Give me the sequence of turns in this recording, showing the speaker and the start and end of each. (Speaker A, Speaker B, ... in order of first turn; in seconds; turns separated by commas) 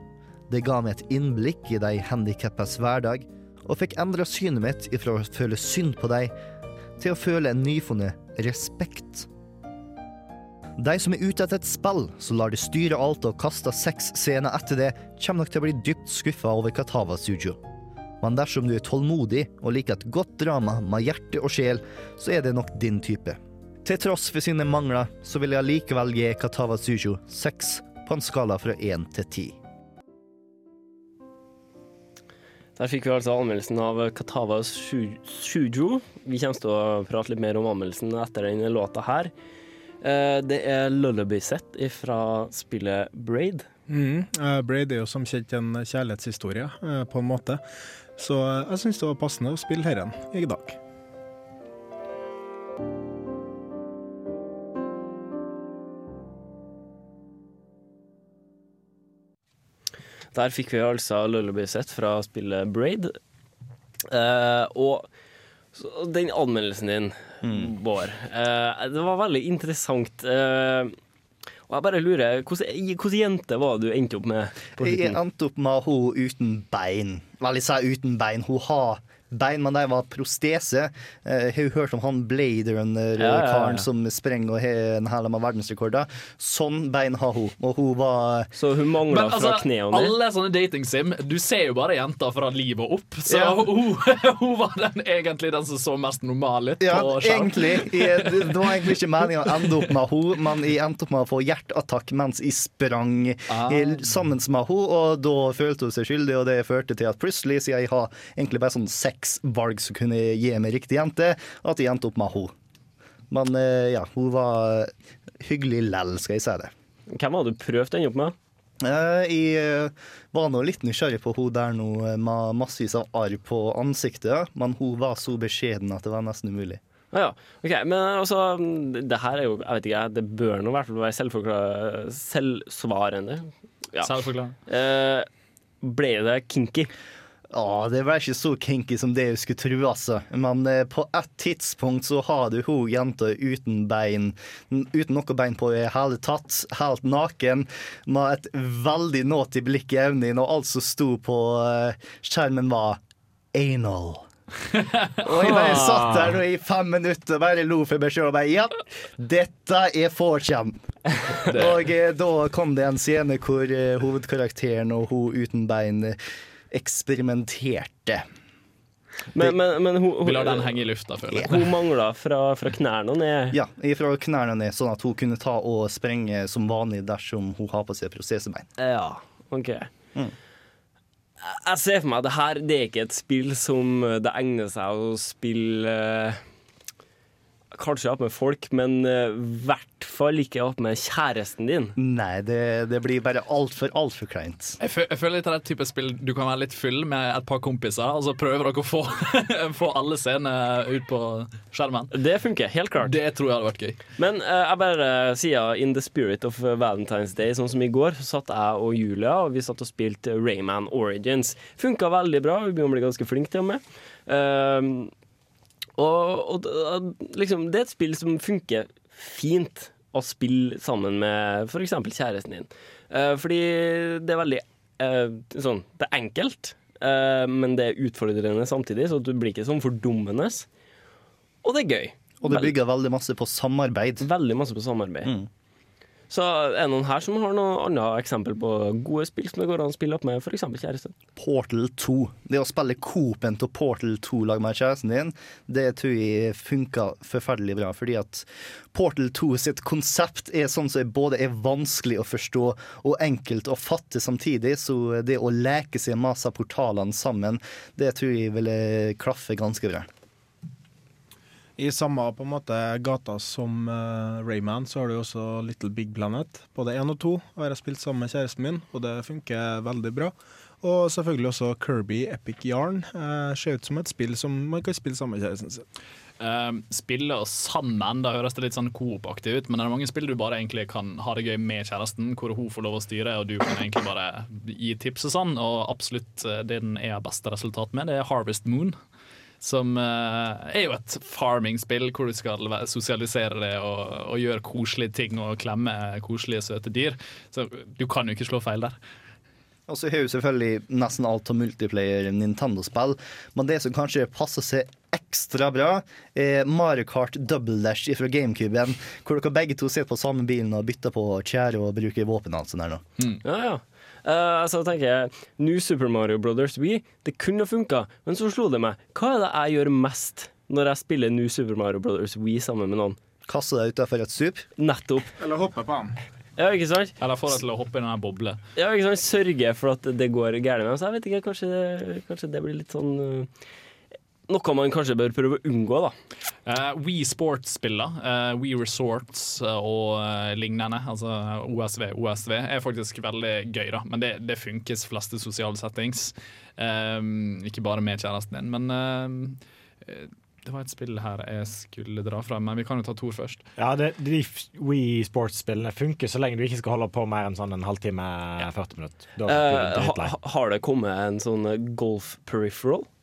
Speaker A: 0.5-6.3, Speaker A: 7.0-9.3, Speaker A: 10.8-17.6, Speaker A: 18.2-29.6, Speaker B: 32.8-39.3, Speaker B: 40.0-43.6, Speaker C: 43.9-47.6, Speaker C: 48.2-50.8, Speaker B: 60.3-63.1, Speaker B: 64.1-65.1, Speaker B: 65.7-70.9, Speaker A: 67.4-67.7, Speaker B: 71.7-75.2, Speaker A: 74.8-88.5, Speaker B: 83.2-83.8, Speaker B: 88.5-90.1, Speaker D: 89.1-99.8, Speaker A: 93.3-93.6, Speaker A: 96.8-112.5, Speaker D: 103.5-104.0, Speaker A: 113.3-114.9, Speaker A: 115.4-116.7, Speaker B: 117.1-118.3, Speaker A: 118.8-126.8, Speaker B: 127.1-135.3, Speaker D: 134.0-134.6, Speaker B: 135.8-136.9, Speaker A: 137.5-153.0, Speaker A: 153.5-154.2, Speaker A: 155.2-160.8, Speaker B: 155.2-156.3, Speaker A: 161.3-166.2, Speaker D: 161.5-161.8, Speaker A: 166.7-168.2, Speaker B: 169.3-170.8, Speaker D: 170.2-171.7, Speaker B: 171.4-173.6, Speaker A: 173.5-178.7, Speaker B: 178.8-179.9, Speaker B: 181.4-186.4, Speaker B: 187.7-191.9, Speaker A: 192.0-194.8, Speaker D: 194.8-202.1, Speaker B: 202.1-203.1, Speaker D: 203.0-204.0, Speaker B: 204.2-215.1, Speaker B: 216.0-230.7, Speaker B: 231.6-232.7, Speaker A: 232.4-234.3, Speaker B: 234.2-235.3, Speaker B: 236.3-241.1, Speaker A: 241.3-260.1, Speaker C: 261.8-275.8, Speaker D: 276.4-289.0, Speaker D: 289.6-298.9, Speaker A: 299.9-313.0, Speaker B: 313.4-323.2, Speaker A: 323.5-324.7, Speaker B: 324.8-325.3, Speaker C: 325.4-326.1, Speaker B: 326.6-327.1, Speaker D: 327.2-328.6, Speaker B: 328.8-333.5, Speaker B: 334.5-336.1, Speaker D: 336.6-353.6, Speaker E: 353.8-360.3, Speaker B: 359.5-363.1